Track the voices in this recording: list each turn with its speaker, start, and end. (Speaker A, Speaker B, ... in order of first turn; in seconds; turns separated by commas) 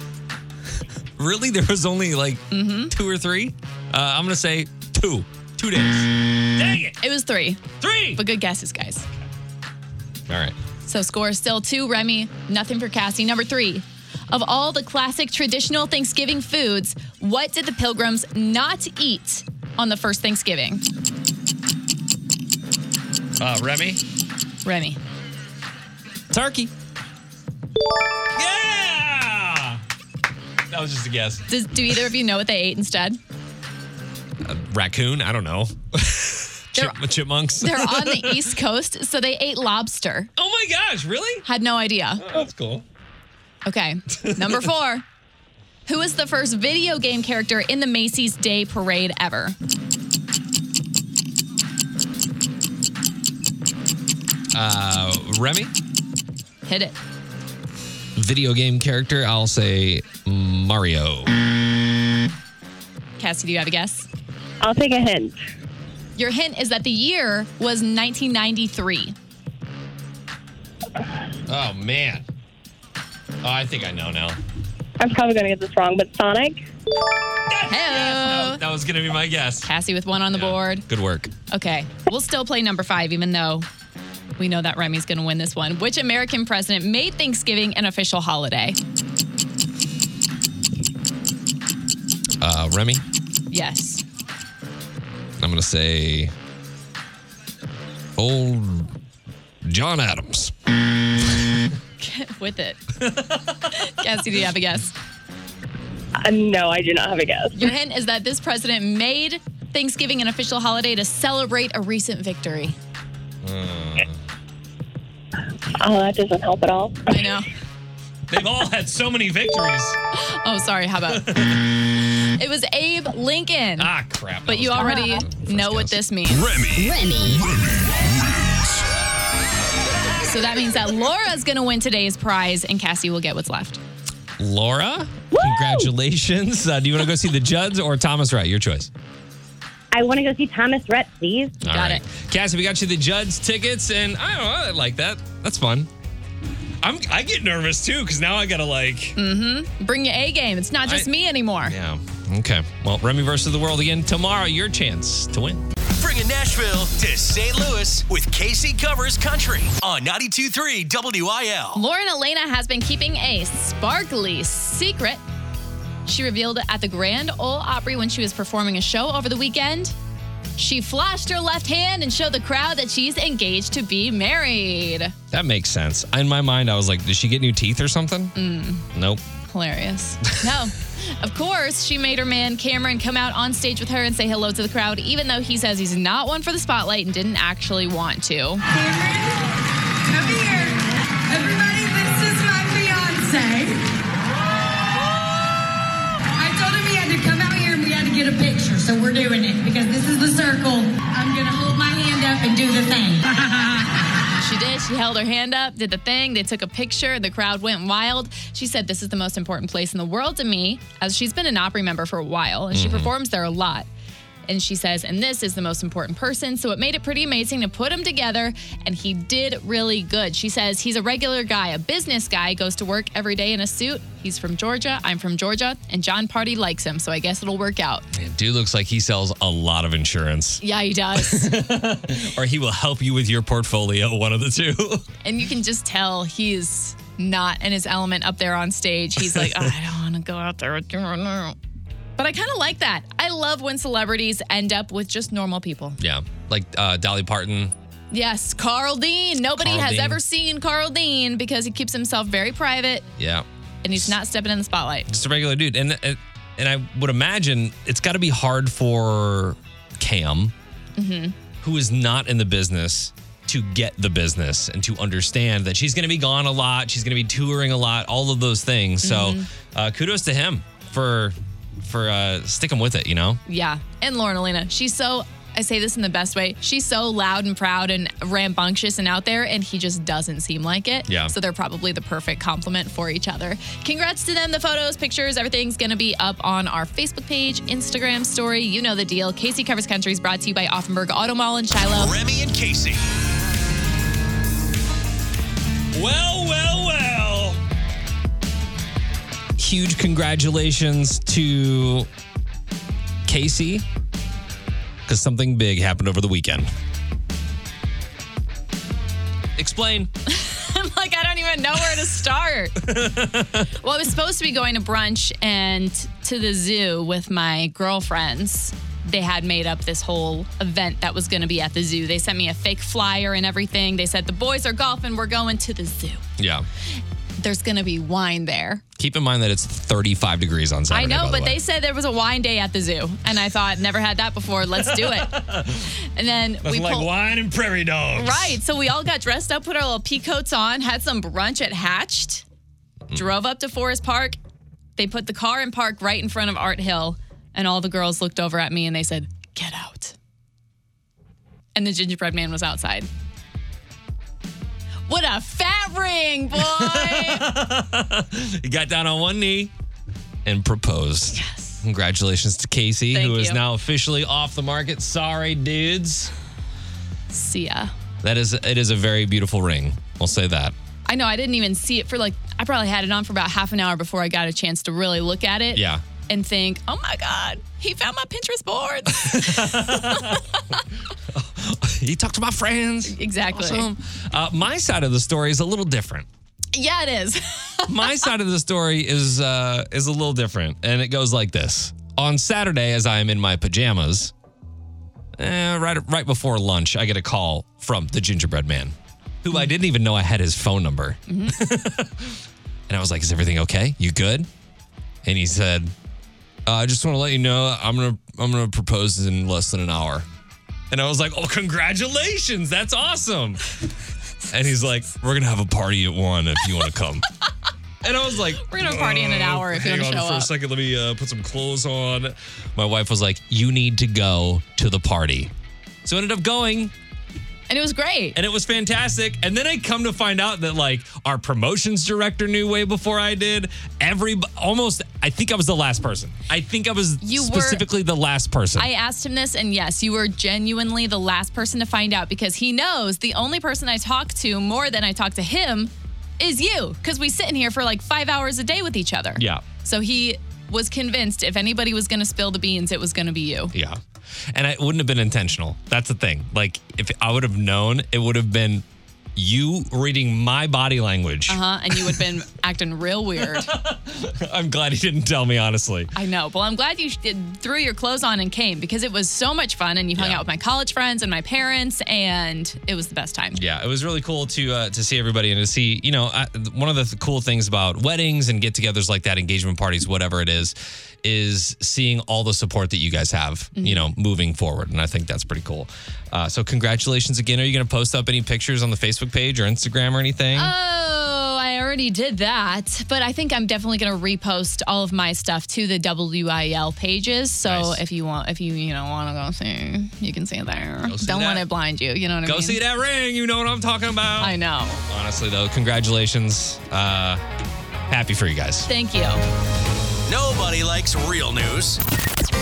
Speaker A: 1.2-7.0, Speaker B: 2.5-2.9, Speaker B: 7.0-7.6, Speaker A: 7.8-8.2, Speaker B: 8.1-9.1, Speaker A: 10.3-10.6, Speaker B: 10.8-20.8, Speaker A: 23.4-24.0, Speaker B: 24.6-25.0, Speaker A: 26.3-26.7, Speaker A: 28.3-29.8, Speaker A: 30.7-31.4, Speaker B: 31.5-33.2, Speaker A: 34.4-38.5, Speaker B: 36.7-40.3, Speaker A: 40.4-41.4, Speaker B: 41.4-42.2, Speaker A: 42.2-42.8, Speaker B: 43.6-45.0, Speaker A: 44.2-44.6, Speaker B: 45.9-49.5, Speaker A: 54.5-55.7, Speaker B: 56.6-57.0, Speaker A: 58.1-61.3, Speaker B: 63.2-64.1, Speaker C: 64.6-65.4, Speaker B: 66.2-69.1, Speaker A: 71.5-72.2, Speaker A: 73.4-74.4, Speaker C: 75.0-76.7, Speaker A: 77.5-79.7, Speaker B: 77.7-78.6, Speaker B: 79.6-80.8, Speaker A: 80.3-81.3, Speaker B: 81.5-83.7, Speaker B: 84.4-88.8, Speaker A: 92.4-93.0, Speaker B: 93.5-94.0, Speaker A: 95.4-96.3, Speaker A: 98.2-98.9, Speaker A: 99.6-100.5, Speaker B: 102.0-102.8, Speaker A: 103.0-103.8, Speaker B: 103.7-104.9, Speaker C: 106.2-107.5, Speaker B: 107.5-112.8, Speaker A: 113.4-114.2, Speaker C: 115.7-117.3, Speaker B: 117.1-117.5, Speaker A: 118.3-120.0, Speaker B: 120.1-121.4, Speaker A: 121.1-121.6, Speaker B: 122.0-123.9, Speaker A: 123.8-126.0, Speaker B: 124.5-126.5, Speaker D: 126.7-127.5, Speaker B: 130.2-133.8, Speaker A: 134.4-138.9, Speaker C: 139.9-141.6, Speaker A: 141.6-145.9, Speaker B: 141.7-142.0, Speaker A: 146.8-149.2, Speaker B: 149.2-151.7, Speaker A: 150.8-155.6, Speaker E: 156.0-161.8, Speaker B: 161.7-165.2, Speaker B: 166.1-169.9, Speaker B: 170.6-175.1, Speaker A: 175.3-178.3, Speaker B: 178.3-178.9, Speaker A: 178.9-179.2, Speaker B: 179.5-188.7, Speaker D: 191.9-192.7, Speaker D: 197.0-198.7, Speaker D: 199.2-200.8, Speaker D: 202.0-202.9, Speaker B: 204.3-213.9, Speaker A: 212.7-213.1, Speaker B: 214.5-228.1, Speaker A: 228.1-230.6, Speaker B: 230.6-231.6, Speaker A: 231.1-235.1, Speaker B: 235.2-241.6, Speaker A: 239.2-239.7, Speaker B: 242.2-246.0, Speaker A: 246.0-247.7, Speaker B: 248.1-253.1, Speaker A: 249.4-250.2, Speaker A: 253.2-253.4, Speaker B: 253.8-255.1, Speaker A: 255.1-260.5, Speaker B: 261.0-261.4, Speaker A: 261.6-273.4, Speaker B: 269.0-269.5, Speaker B: 273.4-292.1, Speaker A: 281.1-281.3, Speaker E: 291.8-293.1, Speaker A: 295.9-297.6, Speaker A: 299.6-302.1, Speaker A: 303.2-303.8, Speaker A: 305.1-306.7, Speaker A: 309.6-310.1, Speaker B: 310.3-312.9, Speaker A: 312.8-313.7, Speaker B: 313.8-326.2, Speaker A: 326.4-326.6, Speaker B: 327.4-328.8, Speaker A: 329.0-331.6, Speaker B: 330.9-337.1, Speaker A: 334.8-335.9, Speaker A: 336.6-338.6, Speaker B: 338.1-342.4, Speaker B: 343.1-344.4, Speaker B: 345.0-350.1, Speaker B: 351.7-353.1, Speaker B: 355.1-357.5, Speaker A: 356.6-359.7, Speaker A: 360.4-366.3, Speaker B: 361.3-361.8, Speaker B: 363.1-363.6, Speaker B: 367.3-367.9, Speaker A: 368.2-370.7, Speaker B: 371.1-380.6, Speaker A: 375.7-376.0, Speaker A: 379.1-380.4, Speaker A: 381.3-386.3, Speaker B: 383.1-383.9, Speaker B: 386.7-388.3, Speaker A: 387.9-394.3, Speaker A: 395.4-404.5, Speaker B: 401.3-401.6, Speaker A: 405.2-405.9, Speaker A: 406.6-410.3, Speaker A: 410.9-413.6, Speaker A: 414.5-417.3, Speaker A: 418.0-425.5, Speaker B: 418.6-420.5, Speaker A: 426.0-426.9, Speaker B: 427.7-428.4, Speaker A: 428.3-438.9, Speaker B: 437.2-437.8, Speaker B: 438.8-453.7, Speaker A: 449.4-449.6, Speaker A: 453.7-458.8, Speaker A: 459.4-462.2, Speaker B: 461.5-463.8, Speaker A: 463.4-466.1, Speaker B: 466.1-473.6, Speaker A: 470.1-470.4, Speaker A: 473.5-490.7, Speaker B: 483.8-484.1, Speaker B: 490.5-502.8, Speaker A: 497.6-498.0, Speaker A: 501.0-501.6, Speaker A: 502.4-504.6, Speaker B: 504.4-505.0, Speaker A: 505.1-507.4, Speaker A: 508.1-508.9, Speaker B: 508.9-509.4, Speaker E: 510.3-512.0